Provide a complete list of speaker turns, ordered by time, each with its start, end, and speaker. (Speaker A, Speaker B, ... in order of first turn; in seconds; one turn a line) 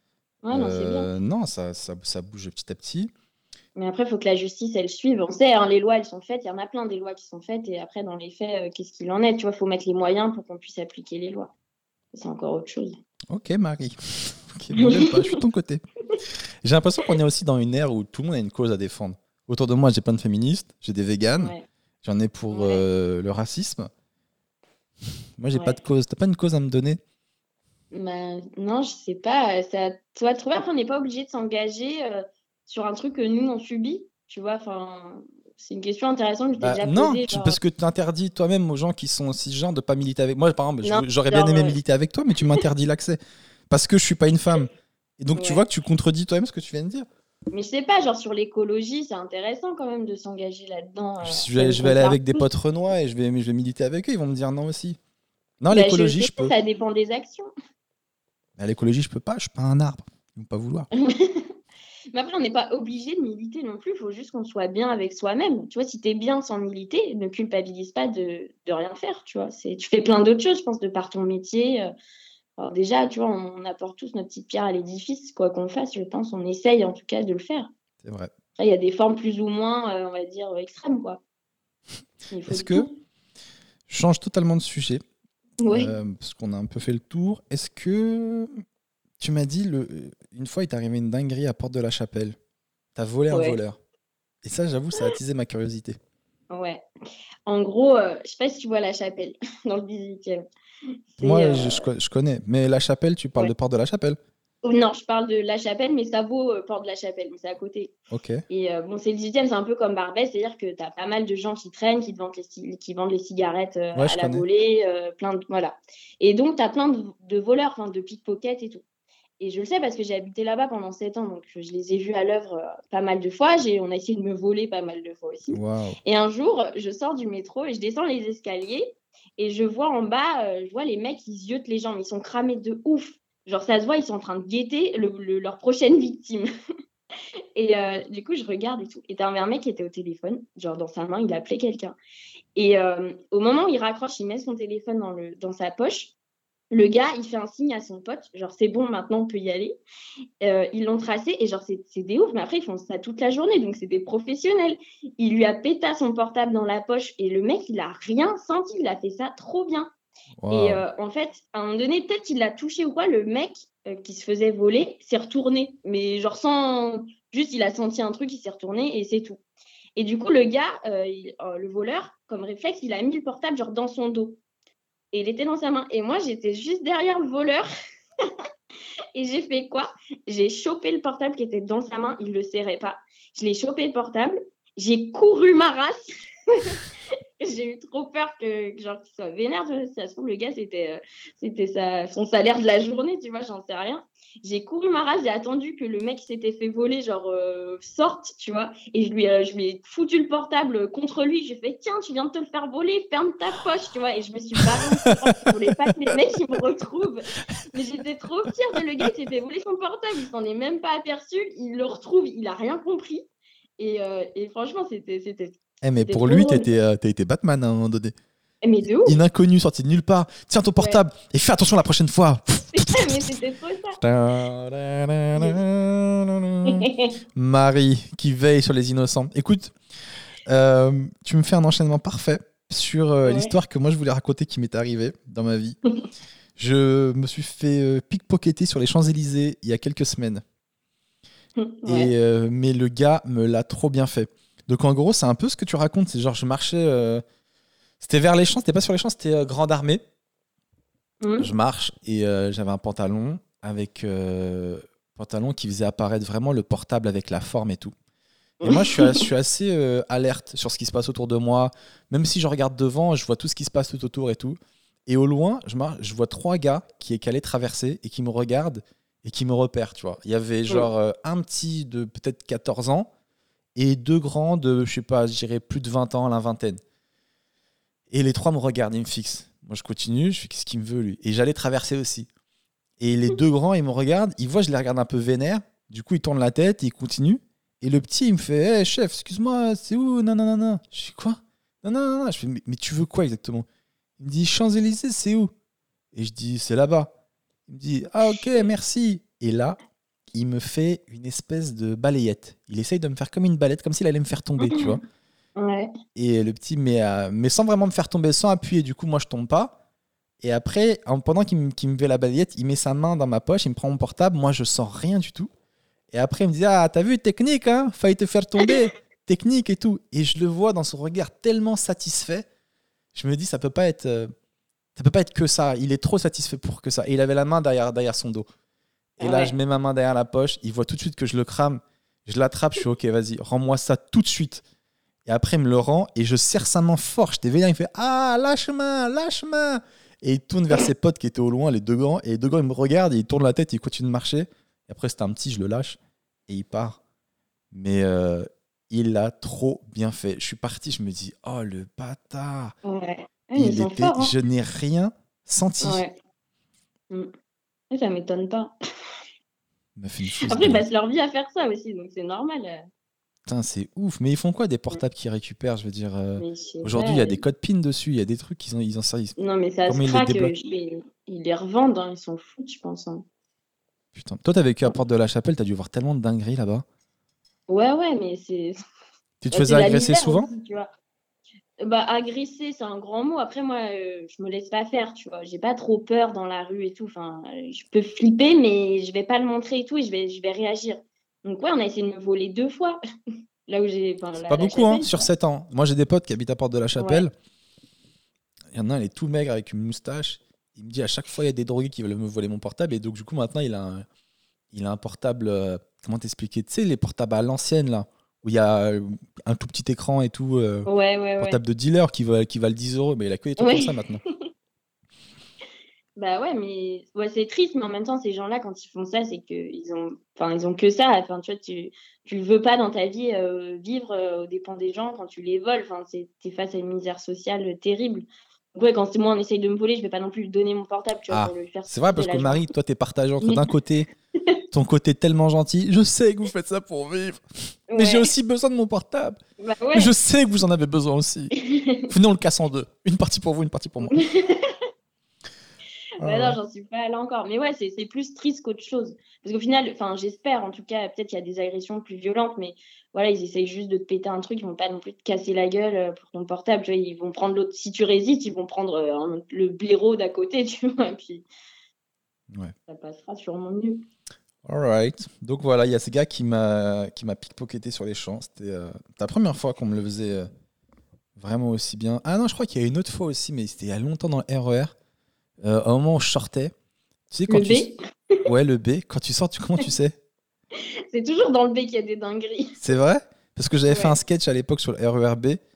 Speaker A: 0.4-1.1
Speaker B: 0.5-3.1
Speaker A: 3.8-11.5
Speaker A: 12.1-13.0
Speaker B: 13.3-15.8
Speaker A: 14.7-15.4
Speaker B: 16.6-23.9
Speaker A: 21.4-21.6
Speaker A: 22.5-22.8
Speaker B: 25.4-27.0
Speaker A: 27.9-37.6
Speaker B: 36.6-47.0
Speaker A: 40.8-41.8
Speaker A: 45.4-45.6
Speaker A: 47.5-52.5
Speaker B: 51.2-55.0
Speaker B: 55.6-56.5
Speaker A: 55.7-57.5
Speaker B: 58.6-60.9
Speaker A: 60.9-61.5
Speaker A: 62.1-71.9
Speaker A: 72.6-77.7
Speaker B: 78.0-78.3
Speaker A: 78.6-81.2
Speaker A: 82.3-82.9
Speaker B: 82.5-82.9
Speaker B: 83.9-85.0
Speaker A: 85.6-85.9
Speaker B: 85.7-88.5
Speaker B: 89.2-92.3
Speaker B: 93.0-93.8
Speaker A: 93.3-93.6
Speaker B: 94.4-96.0
Speaker A: 96.5-96.8
Speaker A: 97.5-100.4
Speaker A: 101.1-101.8
Speaker B: 101.2-104.2
Speaker A: 104.6-107.9
Speaker B: 108.1-108.4
Speaker A: 108.5-118.8
Speaker B: 113.9-114.5
Speaker A: 119.4-136.4
Speaker B: 125.5-126.0
Speaker A: 137.6-141.9
Speaker A: 142.5-146.1
Speaker A: 146.7-149.8
Speaker A: 150.4-159.9
Speaker B: 160.4-160.8
Speaker A: 160.5-169.4
Speaker A: 170.0-174.4
Speaker A: 175.1-177.7
Speaker A: 179.2-186.8
Speaker A: 187.4-213.3
Speaker B: 205.0-205.9
Speaker A: 213.8-216.6
Speaker B: 215.8-218.1
Speaker A: 218.6-219.2
Speaker B: 219.0-223.3
Speaker A: 222.7-224.0
Speaker B: 224.0-229.7
Speaker A: 226.6-227.1
Speaker B: 230.4-235.8
Speaker A: 233.2-233.5
Speaker B: 236.6-240.4
Speaker A: 241.6-242.1
Speaker B: 241.8-247.2
Speaker B: 248.0-250.0
Speaker A: 251.2-251.5
Speaker B: 251.4-257.9
Speaker B: 258.6-273.1
Speaker A: 258.6-259.2
Speaker B: 273.8-276.8
Speaker B: 278.1-282.3
Speaker B: 283.0-293.6
Speaker B: 294.2-295.5
Speaker B: 296.1-297.1
Speaker B: 297.7-299.8
Speaker B: 300.3-305.0
Speaker A: 304.6-305.0
Speaker A: 305.6-305.9
Speaker B: 306.1-309.8
Speaker B: 310.4-315.5
Speaker B: 316.1-322.4
Speaker B: 323.1-324.3
Speaker B: 324.9-328.4
Speaker B: 329.2-334.6
Speaker A: 329.2-329.5
Speaker B: 335.2-347.0
Speaker B: 347.7-352.7
Speaker A: 352.8-354.3
Speaker B: 353.5-356.0
Speaker A: 355.8-356.1
Speaker A: 357.9-359.1
Speaker B: 360.0-360.8
Speaker A: 360.4-362.8
Speaker B: 363.4-370.5
Speaker A: 366.4-367.4
Speaker A: 369.4-373.2
Speaker B: 374.1-376.8
Speaker A: 377.7-378.8
Speaker B: 379.4-380.5
Speaker A: 379.5-380.9
Speaker A: 381.8-393.0
Speaker A: 393.7-395.3
Speaker B: 394.4-397.3
Speaker A: 397.0-397.2
Speaker B: 398.7-404.0
Speaker B: 404.7-410.9
Speaker A: 410.9-411.6
Speaker B: 411.4-414.2
Speaker A: 413.6-413.9
Speaker A: 416.1-432.6
Speaker B: 431.3-434.1
Speaker B: 434.7-437.4
Speaker A: 437.9-438.3
Speaker B: 437.9-439.4
Speaker A: 439.6-440.1
Speaker B: 439.9-441.5
Speaker A: 441.6-442.1
Speaker B: 442.1-444.2
Speaker A: 444.1-444.8
Speaker B: 446.2-446.6
Speaker A: 446.2-461.4
Speaker A: 462.9-464.0
Speaker B: 464.6-470.5
Speaker B: 471.4-474.9
Speaker B: 475.6-476.7
Speaker B: 477.3-477.9
Speaker A: 477.5-478.4
Speaker B: 478.4-480.2
Speaker A: 481.1-482.8
Speaker B: 482.8-485.6
Speaker A: 483.9-484.1